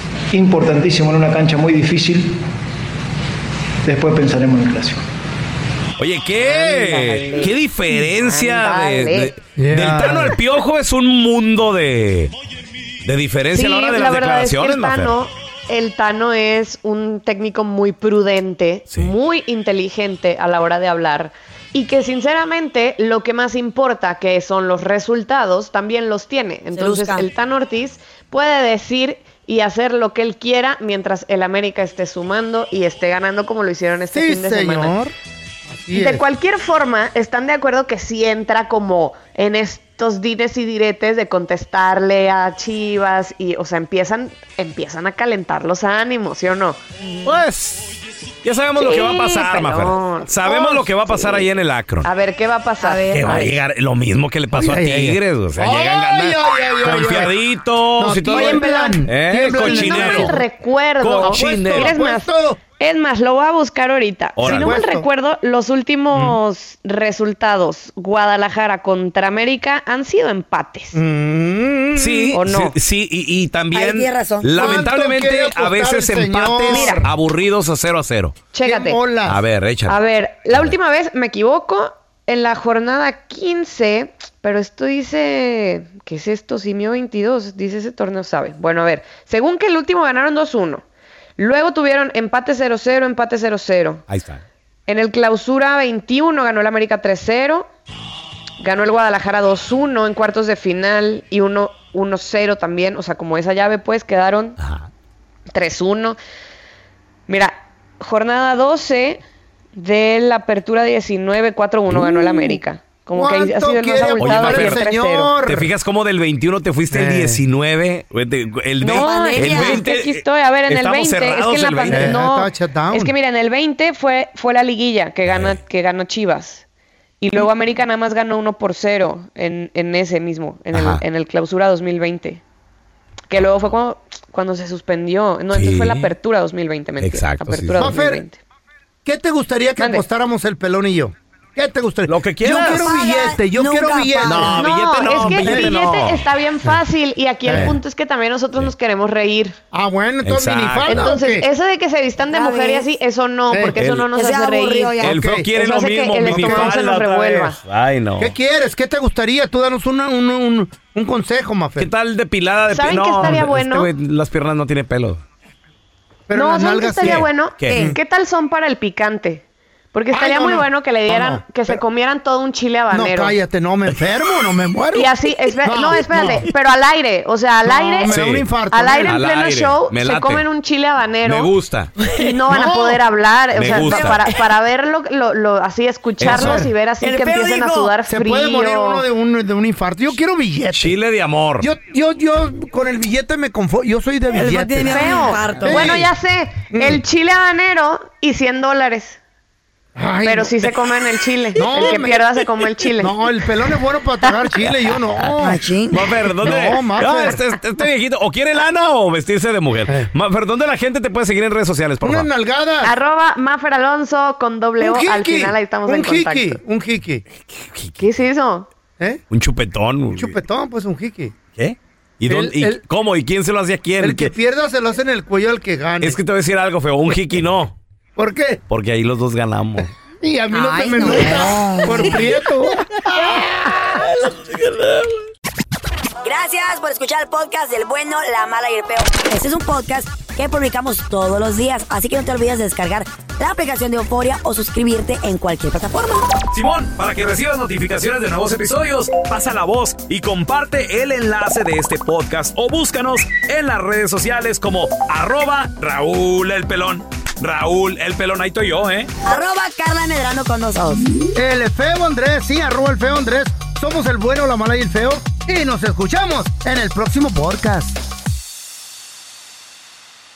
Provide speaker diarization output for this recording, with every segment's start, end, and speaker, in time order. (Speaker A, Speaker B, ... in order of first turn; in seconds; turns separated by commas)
Speaker A: 0.3-2.4, Speaker A: 3.8-5.0, Speaker B: 6.0-12.3, Speaker C: 6.4-9.4, Speaker D: 9.6-10.4, Speaker B: 13.1-15.1, Speaker C: 13.5-35.0, Speaker E: 26.7-27.3, Speaker D: 34.1-35.1, Speaker D: 35.8-36.2, Speaker C: 35.9-46.8, Speaker B: 47.2-47.9, Speaker B: 48.4-52.1, Speaker C: 48.8-51.5, Speaker C: 52.0-53.5, Speaker E: 52.8-53.5, Speaker B: 53.1-60.4, Speaker D: 54.5-57.4, Speaker D: 58.0-60.4, Speaker C: 58.3-59.0, Speaker C: 59.5-71.0, Speaker B: 61.0-61.9, Speaker D: 61.2-62.6, Speaker B: 64.4-64.7, Speaker D: 64.4-65.1, Speaker D: 70.9-72.4, Speaker B: 72.0-78.4, Speaker C: 72.3-72.7, Speaker E: 73.7-74.7, Speaker D: 74.6-77.1, Speaker C: 76.7-77.1, Speaker C: 78.5-79.1, Speaker D: 78.6-79.4, Speaker B: 79.2-80.0, Speaker C: 79.9-90.8, Speaker C: 91.4-94.0, Speaker B: 94.1-94.4, Speaker C: 94.9-97.7, Speaker C: 98.6-104.6, Speaker C: 105.5-106.2, Speaker C: 107.3-109.2, Speaker C: 109.8-115.3, Speaker D: 113.1-115.7, Speaker B: 114.2-114.8, Speaker B: 115.4-122.1, Speaker D: 116.9-117.4, Speaker C: 118.8-126.6, Speaker E: 118.9-119.8, Speaker D: 121.9-123.1, Speaker B: 125.3-125.6, Speaker C: 127.2-132.4, Speaker B: 130.7-131.0, Speaker C: 133.3-138.4, Speaker B: 135.5-136.1, Speaker B: 137.0-137.9, Speaker D: 137.8-138.2, Speaker D: 139.1-144.7, Speaker C: 139.8-140.1, Speaker B: 142.1-142.9, Speaker E: 142.5-144.7, Speaker C: 142.9-143.3, Speaker B: 144.2-146.2, Speaker C: 144.6-149.6, Speaker D: 145.3-145.7, Speaker D: 147.5-147.8, Speaker B: 147.5-147.8, Speaker D: 149.7-151.5, Speaker B: 150.2-151.2, Speaker C: 150.8-157.6, Speaker E: 152.3-152.9, Speaker D: 153.5-153.8, Speaker B: 153.8-154.1, Speaker E: 154.1-155.2, Speaker D: 155.0-155.5, Speaker B: 155.0-158.3, Speaker D: 156.2-156.8, Speaker D: 158.2-161.9, Speaker B: 161.8-165.2, Speaker C: 162.7-163.9, Speaker D: 166.3-168.0, Speaker C: 166.3-173.4, Speaker B: 167.0-167.9, Speaker D: 170.1-171.8, Speaker D: 172.9-176.5, Speaker C: 174.9-181.5, Speaker D: 177.6-179.2, Speaker B: 178.1-180.4, Speaker B: 181.2-181.9, Speaker C: 182.1-189.0, Speaker D: 182.5-183.0, Speaker B: 183.6-184.3, Speaker D: 183.7-184.2, Speaker B: 186.2-186.6, Speaker D: 186.2-186.7, Speaker E: 186.2-187.9, Speaker D: 188.1-191.0, Speaker B: 190.7-191.7, Speaker D: 191.6-196.1, Speaker E: 194.3-195.9, Speaker C: 194.9-199.2, Speaker D: 196.7-197.0, Speaker D: 200.0-200.7, Speaker C: 200.2-203.2, Speaker D: 201.6-202.3, Speaker D: 202.9-205.6, Speaker E: 205.4-206.0, Speaker B: 205.9-212.3, Speaker D: 206.4-207.4, Speaker D: 212.0-212.9, Speaker C: 212.8-216.6, Speaker D: 214.8-217.2, Speaker B: 217.5-218.0, Speaker C: 218.0-218.7, Speaker B: 219.3-220.4, Speaker D: 220.1-221.4, Speaker B: 221.6-224.3, Speaker D: 222.3-222.8, Speaker D: 224.0-226.2, Speaker B: 226.0-227.8, Speaker D: 228.2-228.6, Speaker B: 228.7-229.9, Speaker D: 230.2-234.3, Speaker E: 230.5-232.3, Speaker E: 236.2-246.3, Speaker B: 246.5-259.1, Speaker E: 259.2-261.1, Speaker D: 261.3-268.0